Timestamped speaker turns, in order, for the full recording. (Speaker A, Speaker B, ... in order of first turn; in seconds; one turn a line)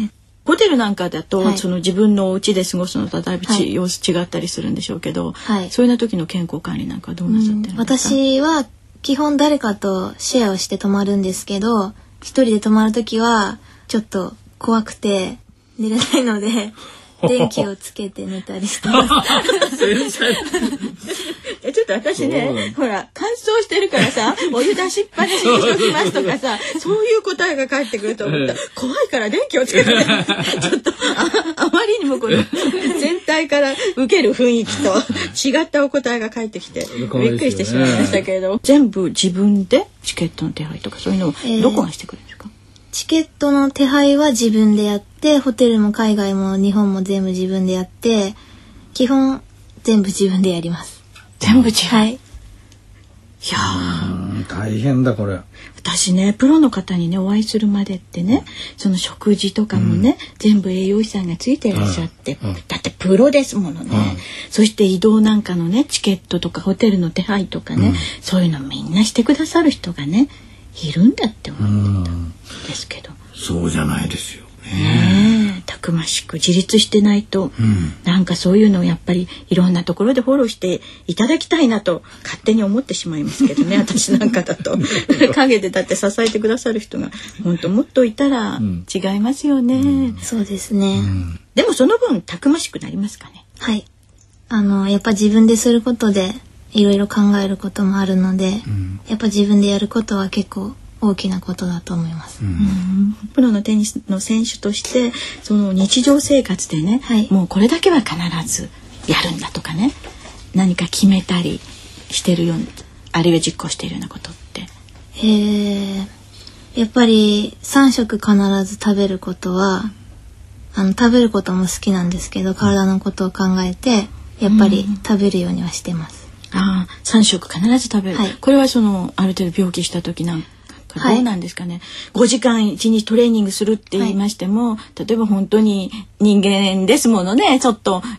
Speaker A: 0.5-8.2
Speaker B: 1.4-1.6
Speaker B: 5.4-5.7
Speaker B: 7.3-19.7
Speaker C: 17.2-17.6
Speaker C: 18.9-20.9
Speaker A: 21.6-42.5
Speaker C: 22.1-22.8
Speaker C: 25.3-26.4
Speaker C: 28.2-28.6
Speaker C: 29.7-30.7
Speaker C: 32.3-33.0
Speaker C: 34.7-35.4
Speaker C: 36.8-38.2
Speaker B: 41.4-41.9
Speaker B: 42.9-48.4
Speaker B: 48.9-51.0
Speaker C: 51.4-51.7
Speaker A: 51.5-52.0
Speaker B: 51.9-52.2
Speaker C: 53.5-55.4
Speaker A: 53.6-54.1
Speaker A: 55.8-70.3
Speaker C: 59.7-60.1
Speaker C: 61.7-62.6
Speaker C: 63.9-64.3
Speaker C: 67.8-68.1
Speaker C: 71.6-72.3
Speaker A: 72.7-73.2
Speaker C: 73.4-75.5
Speaker A: 74.8-77.5
Speaker C: 77.6-78.0
Speaker A: 78.1-90.2
Speaker C: 84.9-85.2
Speaker C: 88.6-88.9
Speaker C: 89.8-90.2
Speaker B: 90.2-91.1
Speaker C: 91.0-91.3
Speaker A: 91.5-93.4
Speaker B: 93.6-93.9
Speaker B: 94.5-102.4
Speaker C: 98.7-99.0
Speaker C: 102.4-102.8
Speaker A: 102.6-110.0
Speaker B: 107.0-107.3
Speaker A: 110.5-114.7
Speaker B: 115.2-116.1
Speaker B: 116.8-119.9
Speaker B: 120.7-126.2
Speaker A: 124.5-124.9
Speaker A: 126.5-138.0
Speaker B: 128.1-128.4
Speaker B: 131.0-131.3